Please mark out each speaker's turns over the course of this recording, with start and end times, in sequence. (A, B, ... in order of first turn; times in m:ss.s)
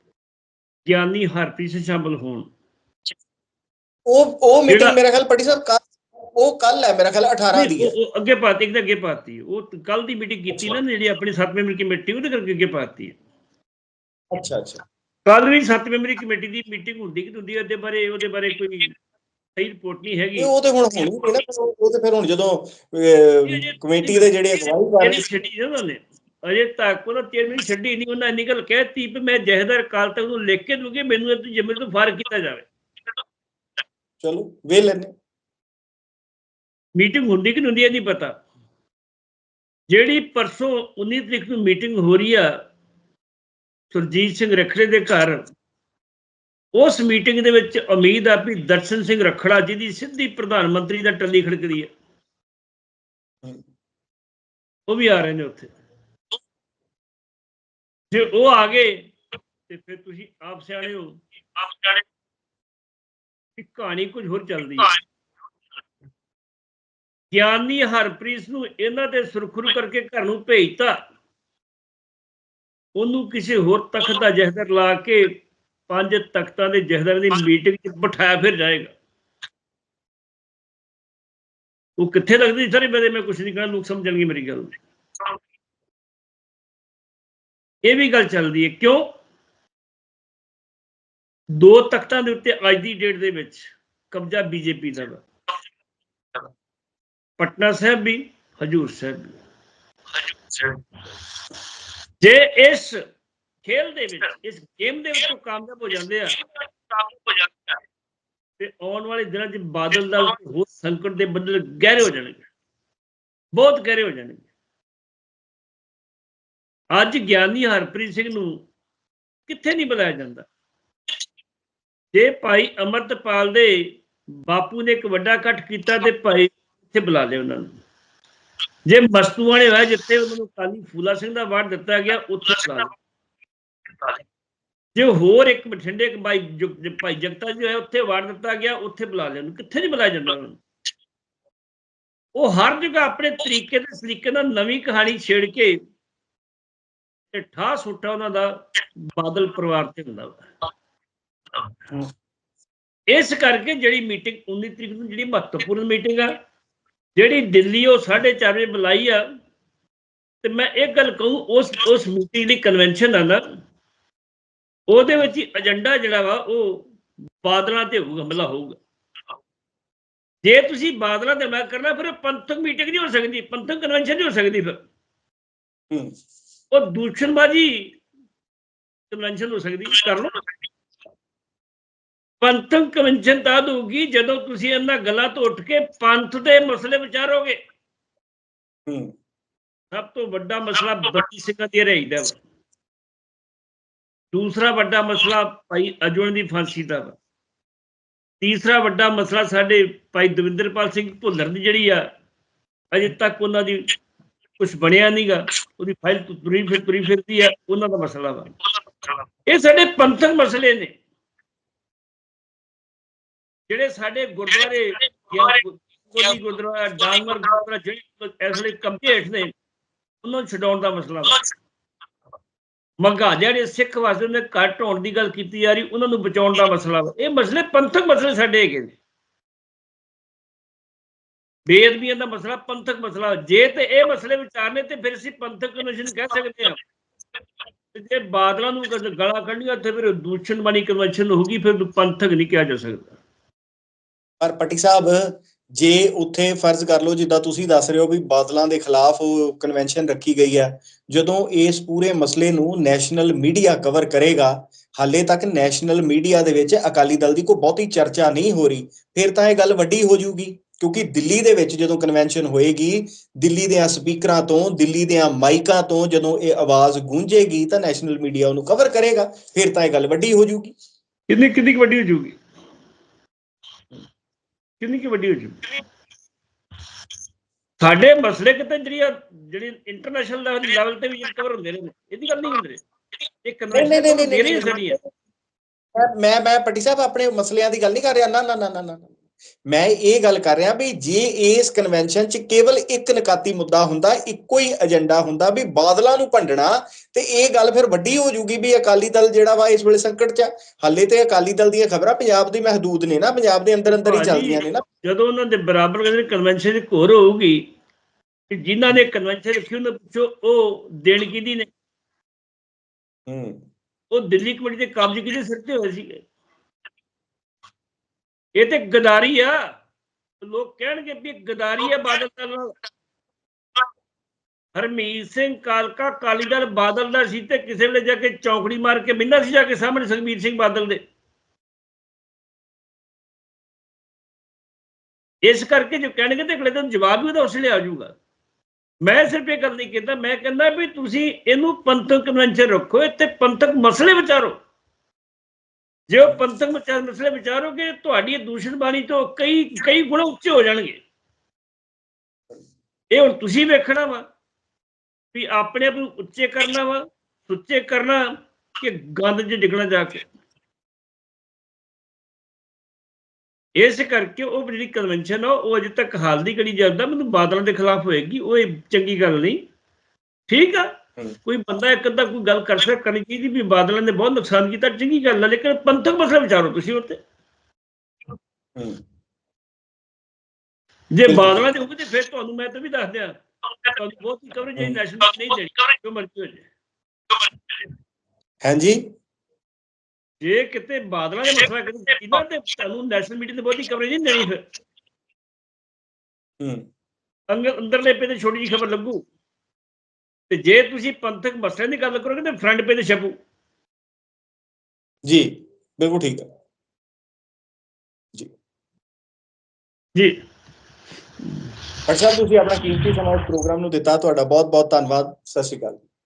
0:00.9-0:02.5 A
0:04.1-0:07.9 B
0:04.7-0:05.0 A
0:07.5-0:13.2 A
0:10.5-0:10.8 B
0:14.3-0:14.8 B
0:15.2-0:18.9 A
0:19.6-0:20.5 A
0:20.4-0:25.3 B
0:23.4-0:24.4 A
0:25.0-0:32.7 A
0:34.2-0:35.1 B
0:37.0-0:38.3 A
0:39.9-0:42.5 A
0:43.9-0:45.4 A
0:46.7-0:51.9 A
0:54.9-0:55.7 A
0:58.1-0:59.1 A
0:59.7-1:02.0 A
1:03.6-1:04.9 A
1:07.3-1:11.0 A
1:13.0-1:18.9 A
1:22.0-1:24.8 A
1:27.8-1:29.0 A
1:31.5-1:35.2 A
1:37.4-1:39.4 A
1:42.2-1:43.0 A
1:43.6-1:46.4 A
1:48.6-1:52.4 A
1:53.5-1:54.4 A
1:56.9-1:58.6 A
1:59.5-2:00.5 A
2:02.1-2:03.9 A
2:04.5-2:07.7 A
2:08.9-2:12.9 A
2:14.9-2:20.6 A
2:22.4-2:25.8 A
2:27.3-2:30.4 A
2:33.1-2:36.3 A
2:37.2-2:39.2 A
2:40.4-2:43.4 A
2:44.9-2:46.9 A
2:47.4-2:48.8 A
2:50.4-2:54.8 A
2:55.9-2:56.2 B
2:56.7-2:57.9 A
2:59.1-3:00.3 A
3:02.4-3:07.6 A
3:08.9-3:09.1 B
3:09.9-3:12.4 A
3:14.3-3:17.2 A
3:18.4-3:22.0 A
3:22.9-3:23.8 A
3:24.6-3:28.6 A
3:29.5-3:30.9 A
3:33.7-3:39.5 A
3:40.2-3:41.4 A
3:43.0-3:49.0 A
3:51.7-3:56.8 A
3:57.9-4:03.1 A
4:04.4-4:30.7 B
4:31.3-4:32.4 A
4:34.8-4:35.7 A
4:37.8-4:42.8 A
4:43.4-4:45.0 A
4:43.7-4:45.0 B
4:45.9-4:49.1 B
4:49.7-5:04.8 B
5:03.9-5:07.6 A
5:08.5-5:11.7 A
5:13.3-5:13.6 B
5:14.1-5:16.2 A
5:18.6-5:19.6 A
5:20.4-5:22.7 A
5:24.7-5:31.0 A
5:35.4-5:38.1 A
5:39.0-5:44.6 A
5:46.1-5:51.0 A
5:53.1-5:54.2 A
5:55.3-5:58.2 A
5:58.8-6:00.3 A
6:03.8-6:09.6 A
6:10.5-6:10.9 A
6:11.4-6:17.2 A
6:18.7-6:19.0 B
6:21.1-6:23.3 A
6:21.2-6:21.6 B
6:23.9-6:26.7 A
6:28.6-6:29.1 B
6:30.4-6:34.6 A
6:36.6-6:36.9 B
6:37.5-6:39.2 A
6:40.5-6:43.3 A
6:45.2-6:46.5 B
6:52.1-6:56.0 B